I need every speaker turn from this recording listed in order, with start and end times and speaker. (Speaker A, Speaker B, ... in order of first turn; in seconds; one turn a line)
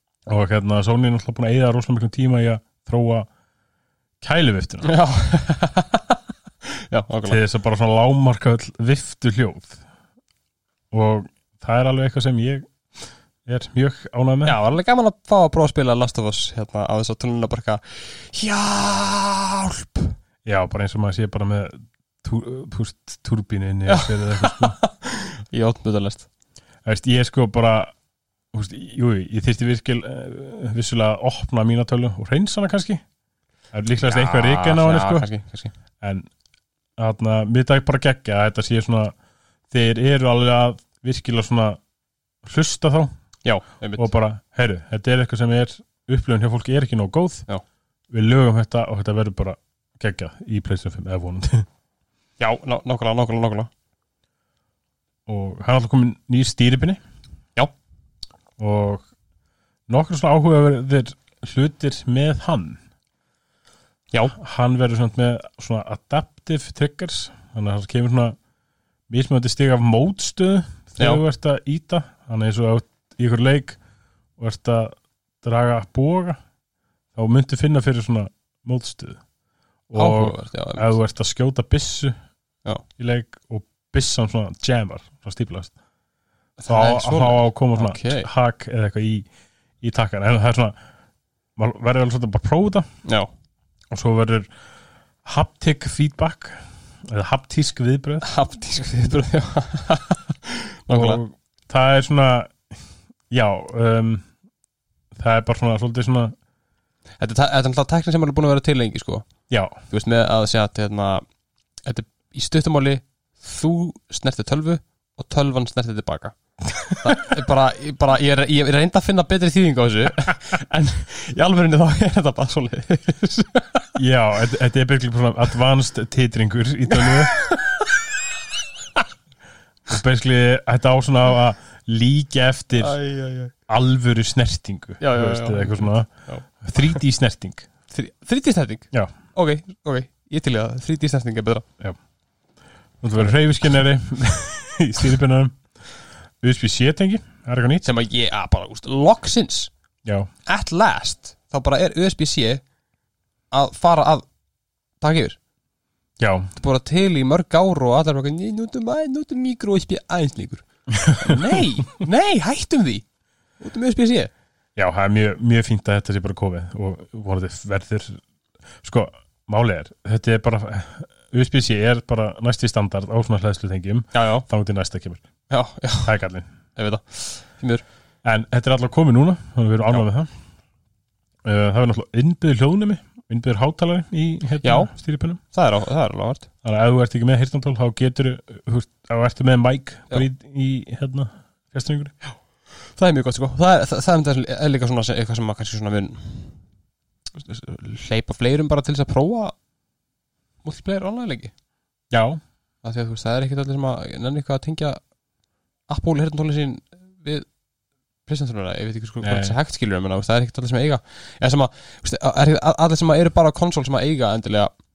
Speaker A: 0.3-3.3
Speaker A: 4.2-4.9
Speaker B: 4.8-7.4
Speaker A: 7.2-9.8
Speaker A: 10.9-12.7
Speaker A: 13.5-14.6
Speaker B: 14.4-20.1
Speaker A: 20.4-24.8
Speaker B: 23.9-26.3
Speaker A: 26.9-27.9
Speaker A: 28.5-33.0
Speaker A: 33.7-35.3
Speaker B: 34.0-35.7
Speaker A: 36.0-36.3
Speaker A: 37.0-39.1
Speaker A: 39.7-41.8
Speaker A: 42.4-43.1
Speaker B: 43.5-44.1
Speaker A: 44.0-47.5
Speaker A: 48.1-51.7
Speaker B: 52.4-53.7
Speaker A: 55.3-57.0
Speaker A: 58.6-59.0
Speaker A: 59.9-62.8
Speaker A: 64.3-68.4
Speaker A: 69.1-73.8
Speaker A: 74.4-76.4
Speaker A: 77.2-79.2
Speaker A: 79.9-82.2
Speaker B: 80.0-81.0
Speaker A: 83.0-85.7
Speaker B: 86.6-88.3
Speaker A: 86.7-89.3
Speaker A: 89.8-90.8
Speaker A: 91.6-92.9
Speaker B: 93.0-93.3
Speaker A: 93.9-94.5
Speaker A: 95.2-98.3
Speaker B: 98.2-101.2
Speaker A: 100.9-102.7
Speaker A: 103.3-104.3
Speaker A: 105.1-106.3
Speaker B: 107.2-109.3
Speaker A: 109.5-109.8
Speaker B: 109.9-111.2
Speaker B: 111.8-116.4
Speaker A: 116.8-117.3
Speaker B: 117.0-123.9
Speaker A: 124.0-127.3
Speaker B: 126.9-128.2
Speaker A: 129.9-133.0
Speaker B: 132.8-133.5
Speaker A: 133.7-136.1
Speaker B: 135.0-136.4
Speaker A: 136.6-137.7
Speaker B: 137.9-141.7
Speaker A: 143.0-145.6
Speaker A: 146.4-147.9
Speaker B: 147.8-149.7
Speaker A: 150.1-150.3
Speaker B: 150.5-152.6
Speaker B: 153.5-154.2
Speaker B: 155.0-155.4
Speaker A: 156.2-156.5
Speaker B: 156.6-163.1
Speaker A: 160.9-161.8
Speaker B: 163.6-164.3
Speaker A: 164.8-168.2
Speaker A: 168.8-175.2
Speaker B: 174.2-174.5
Speaker B: 175.5-176.2
Speaker A: 176.1-176.5
Speaker B: 176.8-177.8
Speaker A: 178.2-180.3
Speaker A: 181.4-185.4
Speaker B: 184.6-184.9
Speaker B: 185.5-186.5
Speaker A: 186.6-192.2
Speaker B: 193.0-196.6
Speaker B: 197.4-199.5
Speaker B: 200.6-201.5
Speaker A: 202.1-202.4
Speaker B: 202.8-205.0
Speaker B: 205.9-207.5
Speaker B: 208.3-214.7
Speaker A: 209.2-209.6